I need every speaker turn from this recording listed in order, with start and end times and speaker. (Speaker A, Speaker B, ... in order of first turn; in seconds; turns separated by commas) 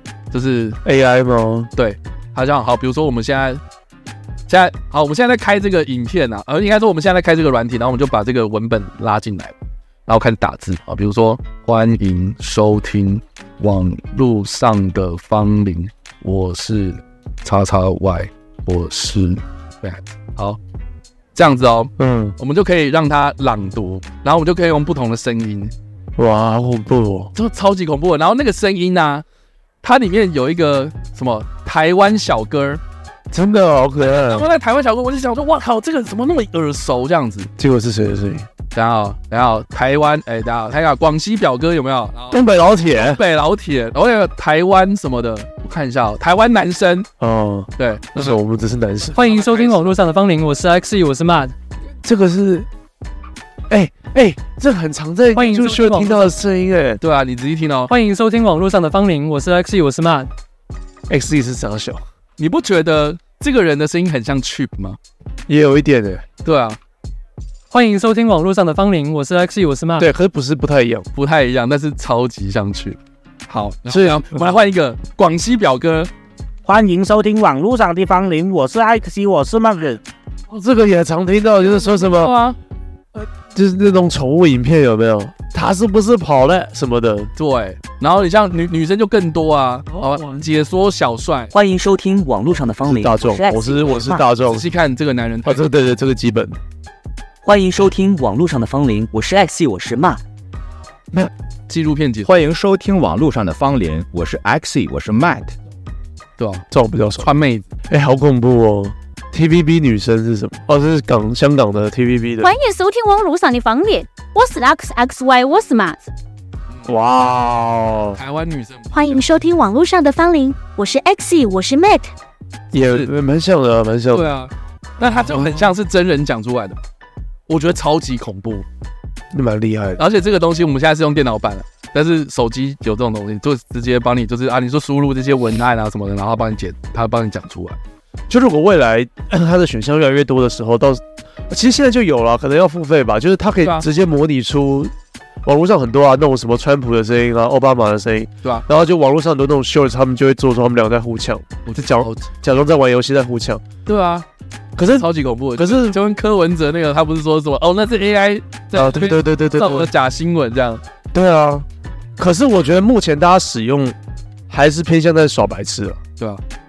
Speaker A: 0.3-0.8, Speaker B: 0.8-1.7, Speaker A: 1.8-3.6, Speaker A: 4.5-9.5, Speaker A: 10.1-20.6, Speaker A: 21.4-25.7, Speaker B: 22.0-22.4, Speaker B: 26.2-27.3, Speaker A: 27.3-29.2, Speaker A: 29.8-32.8, Speaker B: 33.3-34.5, Speaker A: 34.0-37.5, Speaker B: 37.6-38.5, Speaker A: 38.7-42.4, Speaker B: 42.3-43.2, Speaker A: 42.9-47.1, Speaker B: 47.2-49.2, Speaker A: 47.8-48.4, Speaker A: 49.1-49.9, Speaker C: 49.1-51.5, Speaker B: 52.0-52.7, Speaker B: 53.7-57.0, Speaker C: 55.4-56.3, Speaker A: 57.0-57.9, Speaker C: 57.9-60.3, Speaker B: 61.1-62.0, Speaker A: 62.4-65.0, Speaker B: 65.5-66.2, Speaker A: 66.4-66.8, Speaker C: 67.7-70.1, Speaker B: 70.0-71.1, Speaker A: 71.2-76.1, Speaker B: 73.9-74.4, Speaker D: 76.7-80.0, Speaker B: 80.5-82.3, Speaker A: 81.8-82.6, Speaker B: 83.2-87.3, Speaker A: 87.4-91.5, Speaker B: 89.9-90.4, Speaker E: 91.5-94.2, Speaker B: 92.8-94.7, Speaker A: 94.5-95.6, Speaker B: 95.5-96.6, Speaker E: 97.4-100.2, Speaker A: 101.7-102.3, Speaker F: 102.2-105.5, Speaker A: 106.4-106.7, Speaker B: 106.7-107.3, Speaker A: 107.2-107.7, Speaker B: 107.9-112.5, Speaker G: 112.4-116.1, Speaker B: 116.9-118.2, Speaker A: 118.2-119.2, Speaker G: 118.9-122.1, Speaker B: 122.7-124.3, Speaker A: 122.8-123.1, Speaker A: 124.1-126.8, Speaker A: 127.5-128.7, Speaker B: 129.3-130.0, Speaker A: 130.0-137.8, Speaker B: 138.3-144.9, Speaker B: 145.4-153.6, Speaker A: 151.7-152.3, Speaker A: 153.9-154.3, Speaker B: 154.8-156.0, Speaker A: 154.9-160.8, Speaker B: 158.7-159.9, Speaker B: 161.1-161.7, Speaker B: 162.2-164.0, Speaker B: 164.5-166.0